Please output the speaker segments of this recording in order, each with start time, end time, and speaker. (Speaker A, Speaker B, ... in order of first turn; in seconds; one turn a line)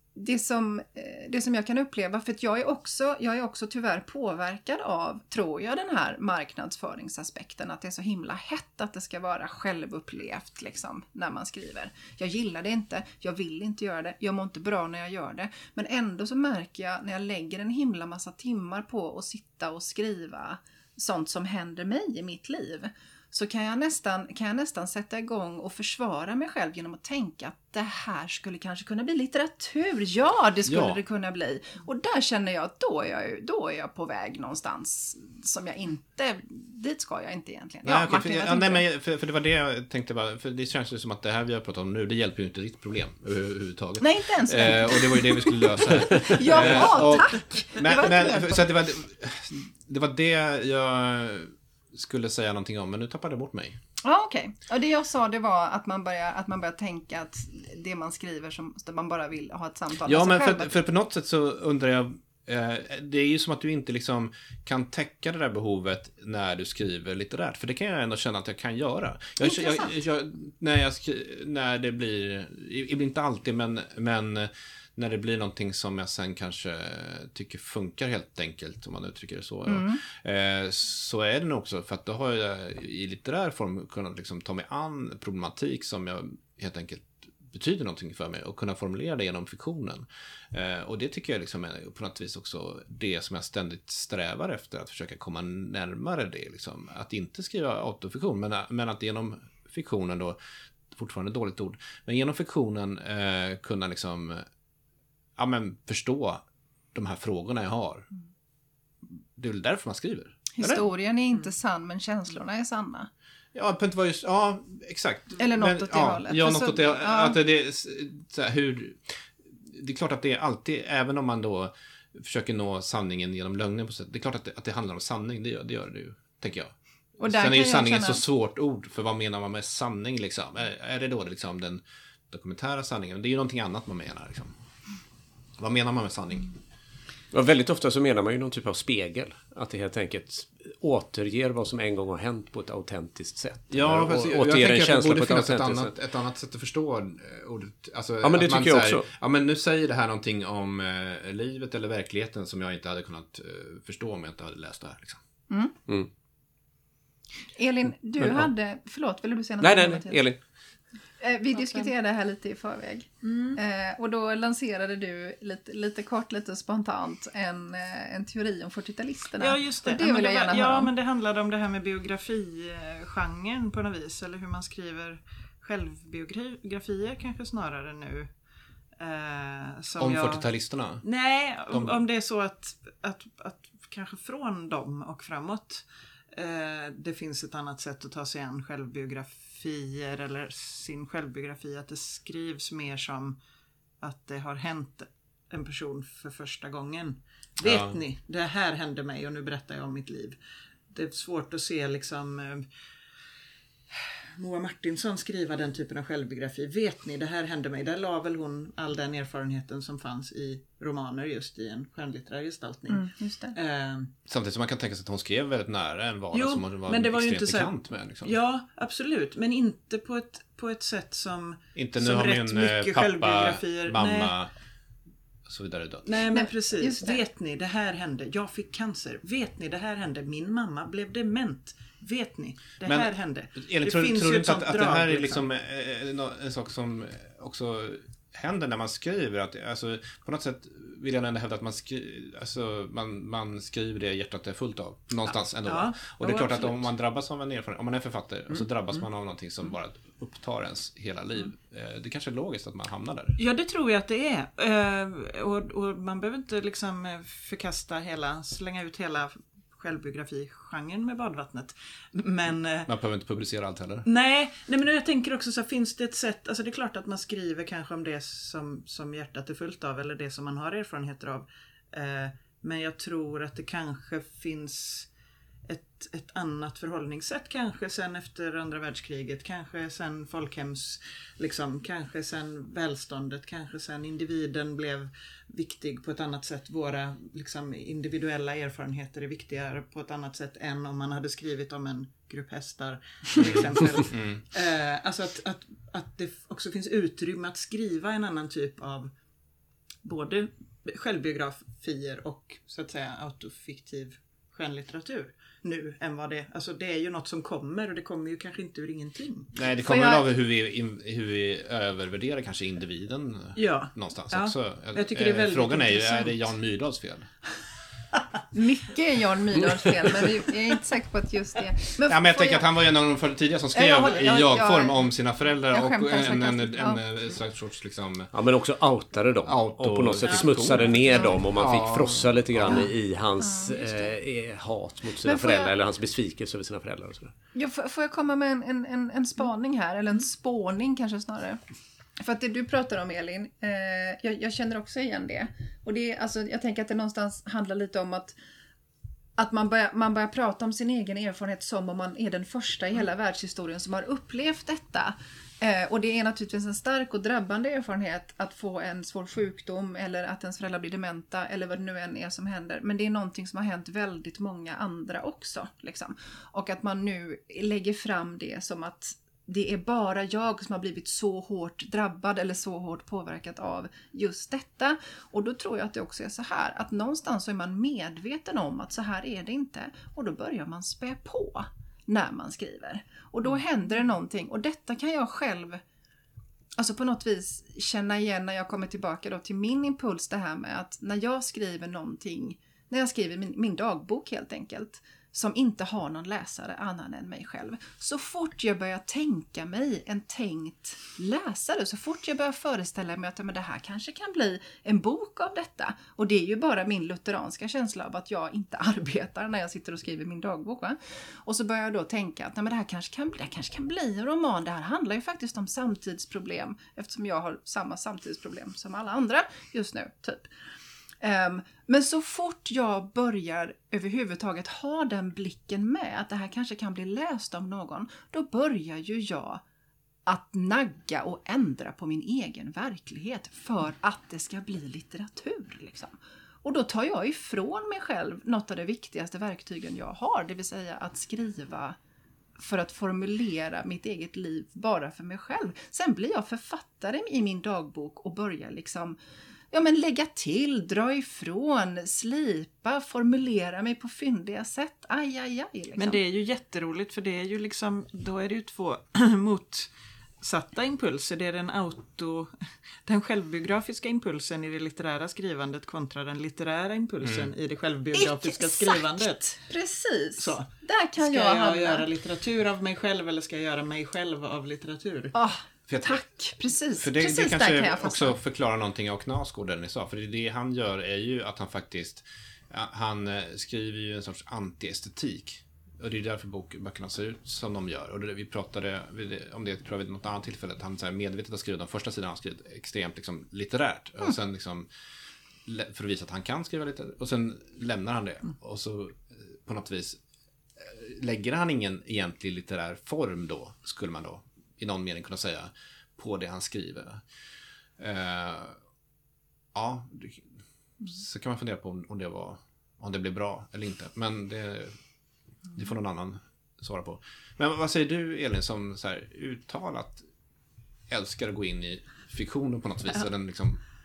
Speaker A: 0.1-38.8
Speaker B: 30.7-31.0
Speaker B: 37.8-53.8
Speaker A: 44.0-48.6
Speaker A: 54.0-60.7
Speaker B: 60.0-100.4
Speaker A: 69.4-69.9
Speaker A: 79.7-80.0
Speaker B: 100.9-104.5
Speaker B: 105.4-106.4
Speaker B: 106.9-108.1
Speaker B: 109.3-110.8
Speaker A: 110.6-113.1
Speaker B: 113.5-134.5
Speaker A: 115.4-117.4
Speaker A: 127.2-128.2
Speaker B: 135.6-136.5
Speaker C: 137.3-145.9
Speaker B: 143.7-155.2
Speaker C: 148.2-149.1
Speaker A: 155.5-155.7
Speaker A: 157.6-160.2
Speaker C: 158.2-158.5
Speaker C: 159.6-160.4
Speaker A: 161.2-170.9
Speaker D: 163.2-163.6
Speaker D: 169.4-178.3
Speaker D: 179.0-180.5
Speaker B: 180.0-181.0
Speaker D: 181.0-193.4
Speaker B: 181.7-181.9
Speaker D: 194.0-200.4
Speaker B: 197.6-197.9
Speaker D: 200.9-202.7
Speaker D: 203.9-214.1
Speaker A: 212.9-213.5
Speaker B: 214.2-218.3
Speaker D: 216.3-224.3
Speaker B: 221.8-224.5
Speaker B: 225.4-226.1
Speaker D: 226.0-235.4
Speaker A: 226.3-227.2
Speaker B: 232.8-253.4
Speaker D: 245.6-246.9
Speaker D: 253.4-262.9
Speaker B: 262.9-264.1
Speaker D: 264.0-275.1
Speaker D: 275.7-299.1
Speaker B: 293.4-294.4
Speaker D: 300.0-309.5
Speaker B: 309.6-317.3
Speaker A: 309.9-310.2
Speaker D: 313.5-316.5
Speaker A: 318.5-322.6
Speaker B: 322.0-328.3
Speaker A: 323.7-325.1
Speaker A: 325.7-327.0
Speaker C: 328.3-337.3
Speaker B: 329.4-332.9
Speaker D: 330.2-331.1
Speaker A: 333.4-334.1
Speaker A: 335.2-335.7
Speaker A: 337.5-341.6
Speaker A: 342.2-348.4
Speaker A: 349.4-385.8
Speaker A: 386.8-420.5
Speaker A: 421.2-429.6
Speaker A: 430.2-442.0
Speaker A: 442.6-449.2
Speaker A: 449.7-456.2
Speaker D: 456.0-459.9
Speaker D: 460.4-462.5
Speaker D: 463.0-469.6
Speaker B: 467.2-467.5
Speaker A: 468.1-472.1
Speaker D: 470.4-470.7
Speaker D: 471.2-475.3
Speaker A: 475.3-478.4
Speaker B: 475.9-476.2
Speaker B: 477.0-494.9
Speaker B: 495.6-500.2
Speaker B: 500.8-507.2
Speaker B: 508.0-508.8
Speaker B: 509.7-510.5
Speaker B: 511.0-514.9
Speaker B: 515.7-520.2
Speaker B: 521.1-523.8